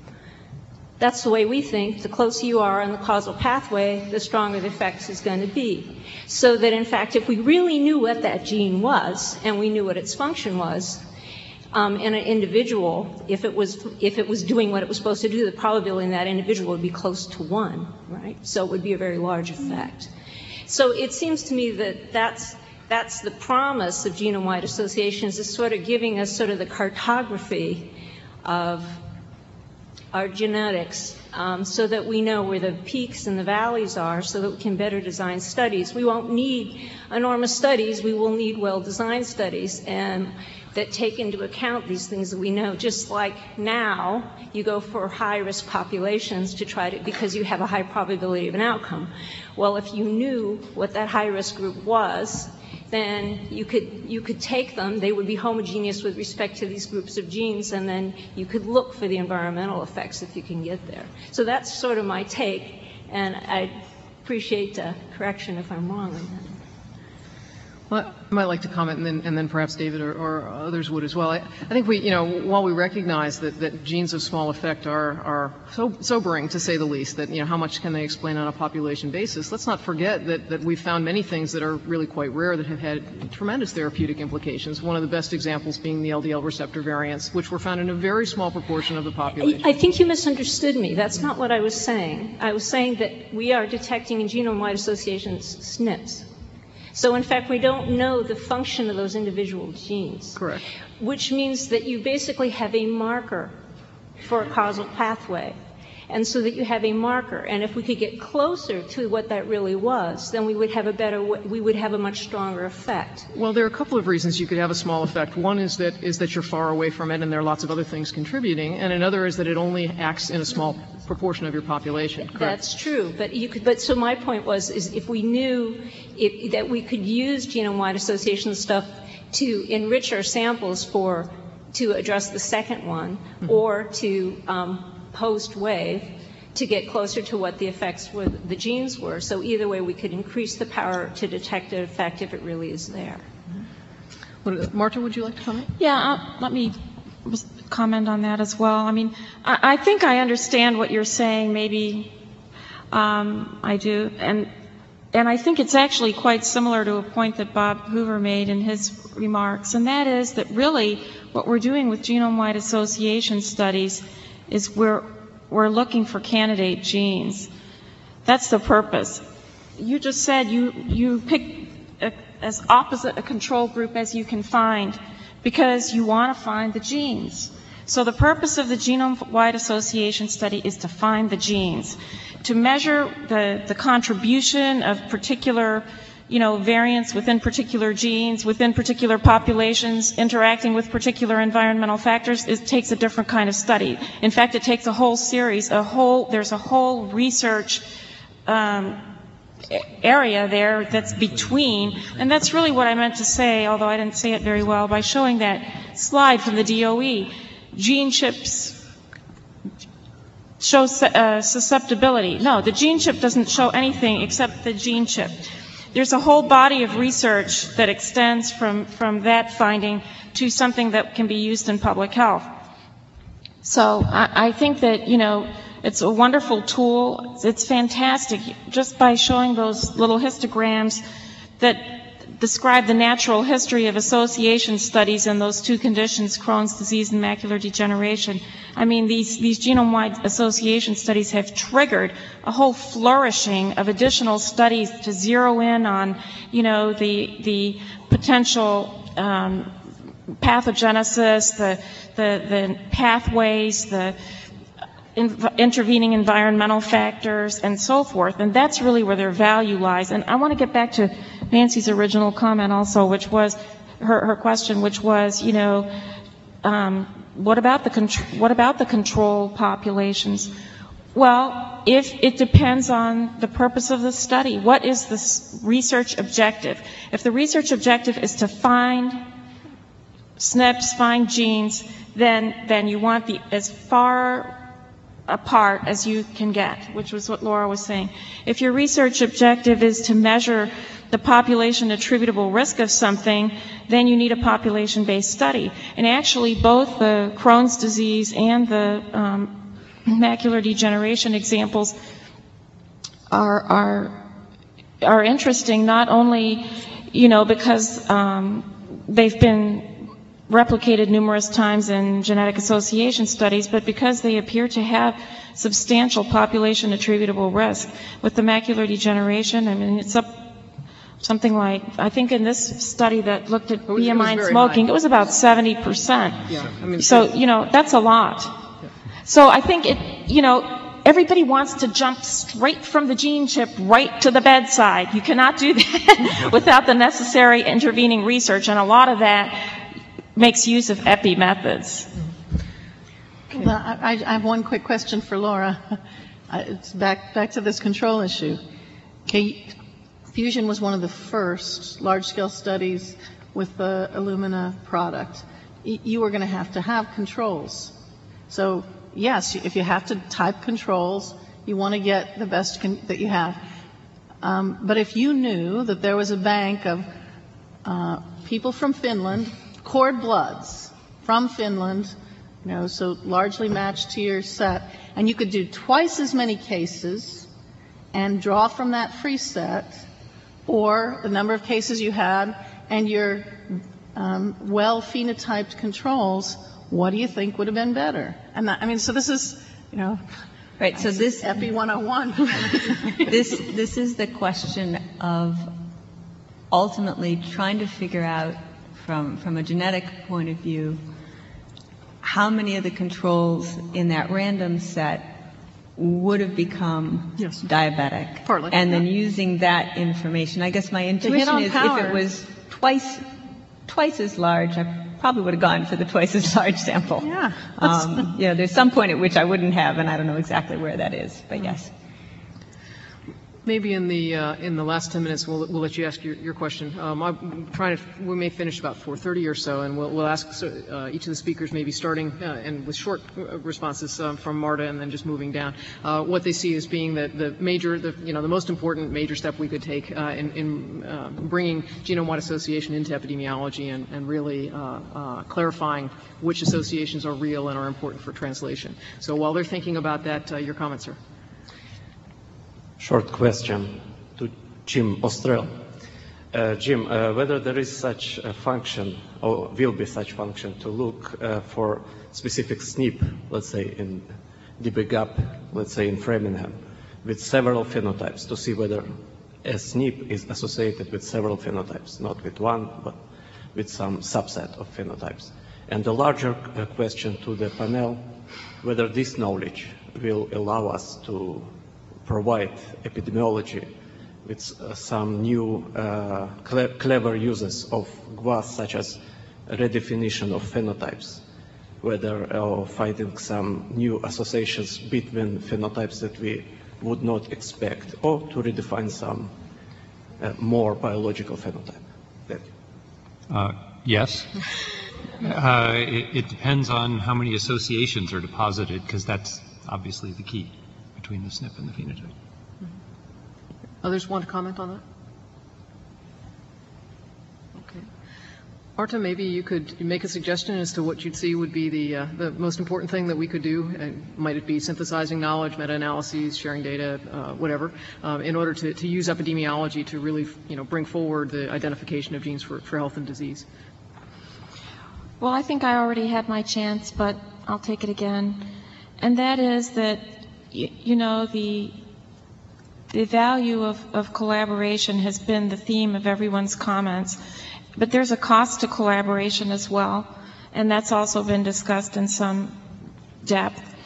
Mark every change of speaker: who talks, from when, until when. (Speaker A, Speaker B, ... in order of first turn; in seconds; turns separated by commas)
Speaker A: 1.0-11.0, Speaker A: 11.7-20.1, Speaker A: 20.6-29.0, Speaker A: 30.1-66.6, Speaker B: 67.9-89.7, Speaker A: 89.4-96.2, Speaker A: 96.9-100.4, Speaker B: 100.3-100.6, Speaker A: 101.0-103.5, Speaker A: 104.2-105.6, Speaker A: 106.1-113.3, Speaker B: 113.3-122.5, Speaker A: 122.3-143.3, Speaker B: 144.4-145.7, Speaker C: 145.8-152.1, Speaker C: 152.9-154.5, Speaker C: 155.1-167.5, Speaker C: 168.2-169.2, Speaker C: 169.8-197.8, Speaker C: 198.4-199.0, Speaker C: 199.7-208.8, Speaker C: 210.6-222.5, Speaker C: 223.6-231.0, Speaker C: 231.6-249.7, Speaker C: 250.3-254.2, Speaker C: 255.1-265.9, Speaker C: 266.6-270.5, Speaker C: 271.1-279.2, Speaker C: 280.4-284.6, Speaker C: 285.3-301.9, Speaker C: 303.3-304.2, Speaker C: 305.0-320.5, Speaker C: 321.2-328.7, Speaker B: 323.9-324.9, Speaker B: 326.5-327.3, Speaker C: 329.2-339.8, Speaker C: 340.3-342.1, Speaker D: 343.5-348.6, Speaker D: 349.2-349.8, Speaker D: 350.3-357.9, Speaker D: 358.5-363.6, Speaker D: 364.4-367.1, Speaker D: 367.8-377.5, Speaker D: 378.1-380.0, Speaker D: 380.6-390.2, Speaker E: 390.8-391.6, Speaker D: 390.9-393.4, Speaker E: 393.2-395.7, Speaker E: 396.7-401.0, Speaker E: 402.2-405.4, Speaker E: 405.9-413.2, Speaker D: 408.4-408.9, Speaker D: 411.2-412.2, Speaker E: 413.9-421.9, Speaker D: 417.2-418.1, Speaker B: 423.6-451.2, Speaker F: 453.0-455.8, Speaker F: 456.5-481.7, Speaker F: 482.2-483.9, Speaker F: 484.4-491.4, Speaker F: 492.0-499.6, Speaker F: 500.4-502.7, Speaker G: 503.5-504.6, Speaker G: 505.4-512.3, Speaker B: 514.0-515.0, Speaker B: 517.8-518.0, Speaker B: 519.0-533.6, Speaker C: 535.4-538.6, Speaker C: 539.2-542.0, Speaker C: 543.1-547.4, Speaker C: 547.9-552.8, Speaker C: 553.4-553.8